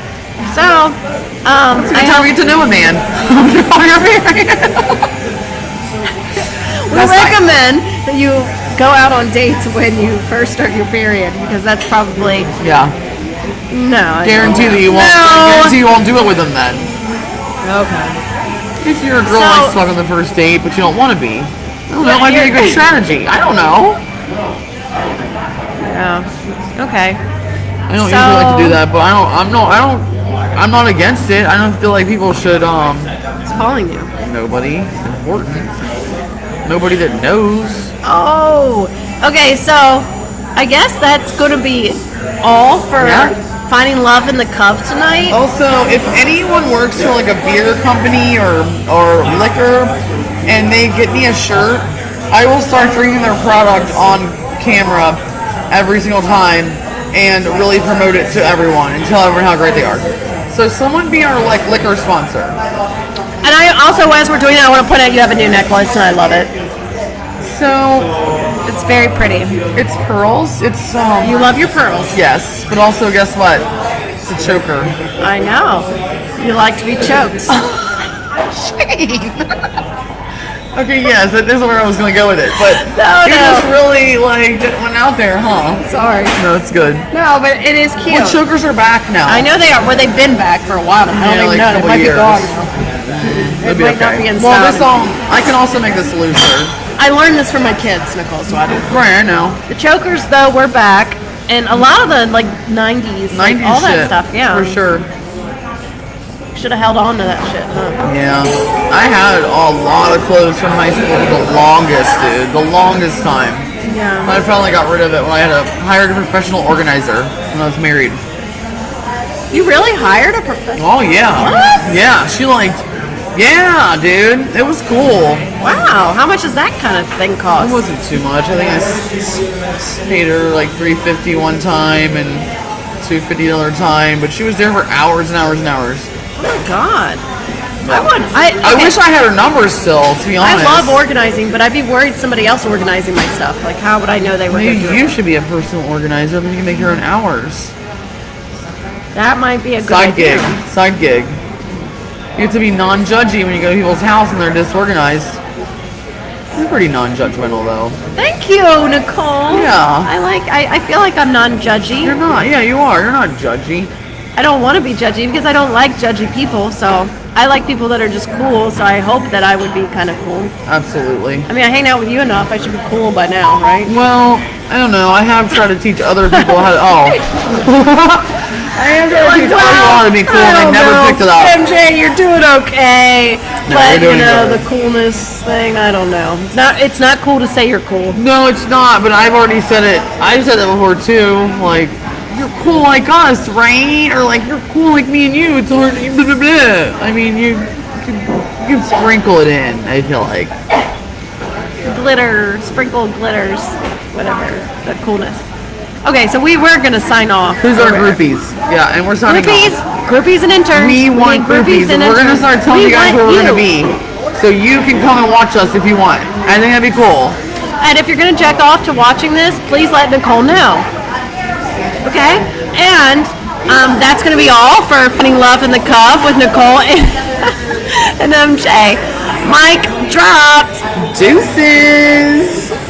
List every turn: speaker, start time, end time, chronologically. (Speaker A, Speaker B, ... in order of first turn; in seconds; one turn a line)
Speaker A: 0.5-2.3
Speaker B: 1.8-5.1
Speaker A: 6.4-12.5
Speaker B: 6.9-7.4
Speaker B: 12.6-12.9
Speaker A: 13.7-15.8
Speaker B: 14.2-16.9
Speaker A: 17.6-18.2
Speaker B: 18.8-24.0
Speaker A: 19.2-19.8
Speaker A: 22.0-22.8
Speaker A: 25.8-27.2
Speaker B: 27.9-33.1
Speaker A: 28.0-28.8
Speaker A: 33.5-34.1
Speaker B: 34.2-35.8
Speaker B: 36.6-37.9
Speaker A: 38.0-45.4
Speaker B: 43.0-43.3
Speaker B: 45.3-50.0
Speaker B: 50.5-62.6
Speaker A: 63.4-66.5
Speaker B: 67.4-68.1
Speaker A: 68.7-69.6
Speaker B: 69.8-73.7
Speaker A: 71.2-72.2
Speaker B: 74.3-74.9
Speaker A: 75.2-79.4
Speaker B: 80.8-85.8
Speaker A: 82.6-83.7
Speaker A: 85.8-86.4
Speaker B: 86.4-87.1
Speaker A: 87.1-88.4
Speaker B: 88.1-89.5
Speaker A: 89.3-92.7
Speaker B: 91.1-92.5
Speaker B: 93.1-96.7
Speaker A: 93.6-94.9
Speaker A: 97.0-99.0
Speaker B: 98.8-99.6
Speaker A: 99.7-104.8
Speaker B: 103.3-105.1
Speaker A: 106.5-108.0
Speaker B: 108.0-113.7
Speaker A: 113.8-114.3
Speaker B: 114.2-118.2
Speaker A: 119.5-121.8
Speaker B: 120.8-122.8
Speaker B: 123.3-125.5
Speaker A: 125.6-127.8
Speaker B: 127.6-132.5
Speaker B: 133.0-136.1
Speaker A: 136.4-137.2
Speaker B: 137.8-138.1
Speaker A: 137.9-139.0
Speaker B: 138.6-141.0
Speaker A: 140.4-145.1
Speaker B: 144.5-147.7
Speaker A: 149.2-150.6
Speaker B: 149.8-151.4
Speaker B: 152.4-155.4
Speaker B: 156.6-158.0
Speaker A: 158.2-162.2
Speaker B: 159.5-160.1
Speaker B: 162.0-163.9
Speaker A: 164.4-170.5
Speaker B: 170.7-171.5
Speaker A: 171.5-173.9
Speaker B: 173.9-181.6
Speaker A: 176.3-177.2
Speaker A: 178.8-188.2
Speaker B: 183.7-184.7
Speaker B: 188.1-200.5
Speaker A: 201.8-205.4
Speaker A: 206.0-208.2
Speaker B: 207.6-209.8
Speaker A: 209.3-213.7
Speaker B: 210.7-217.4
Speaker A: 217.8-220.9
Speaker A: 222.1-230.8
Speaker B: 231.0-232.7